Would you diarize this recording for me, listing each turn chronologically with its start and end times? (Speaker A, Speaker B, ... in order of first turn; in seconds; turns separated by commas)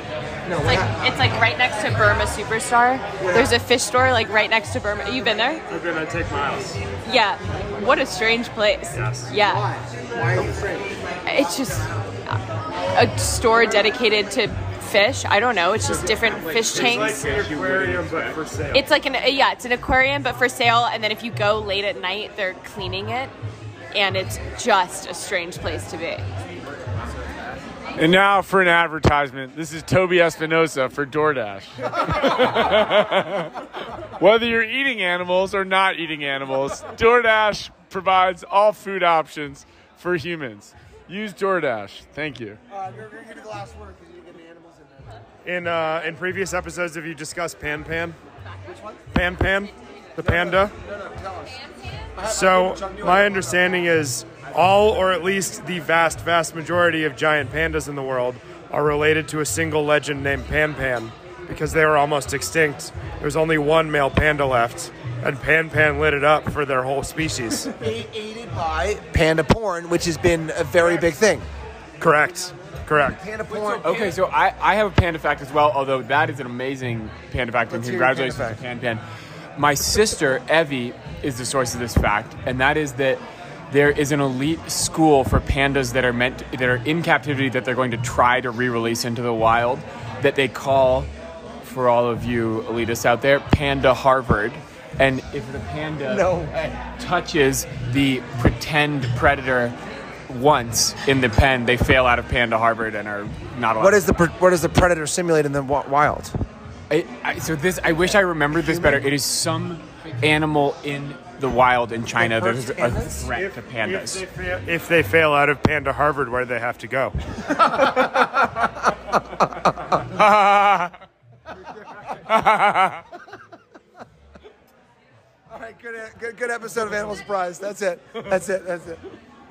Speaker A: 0.4-1.1, Speaker B: 0.6-5.6, Speaker A: 3.2-3.6, Speaker C: 5.7-6.8, Speaker B: 7.0-9.6, Speaker C: 8.9-9.3, Speaker A: 9.4-11.2, Speaker B: 11.2-12.4, Speaker B: 12.9-17.4, Speaker C: 16.7-18.8, Speaker D: 17.3-18.3, Speaker B: 18.7-23.3, Speaker B: 23.9-26.2, Speaker D: 27.9-33.6, Speaker D: 34.2-42.6, Speaker A: 42.7-45.2, Speaker C: 45.4-48.2, Speaker A: 48.6-49.0, Speaker C: 49.1-50.7, Speaker A: 50.2-51.6, Speaker A: 52.1-53.9, Speaker C: 52.3-67.7, Speaker A: 67.7-71.5, Speaker C: 72.0-73.2, Speaker A: 73.0-74.1, Speaker E: 73.8-79.0, Speaker A: 77.7-78.6, Speaker E: 79.5-91.1, Speaker E: 91.6-99.8, Speaker A: 96.0-96.7, Speaker E: 100.3-104.3, Speaker A: 103.8-106.3, Speaker E: 106.9-114.2, Speaker A: 108.6-109.1, Speaker A: 112.2-113.2, Speaker C: 113.3-117.1, Speaker A: 121.9-122.2, Speaker A: 125.5-129.0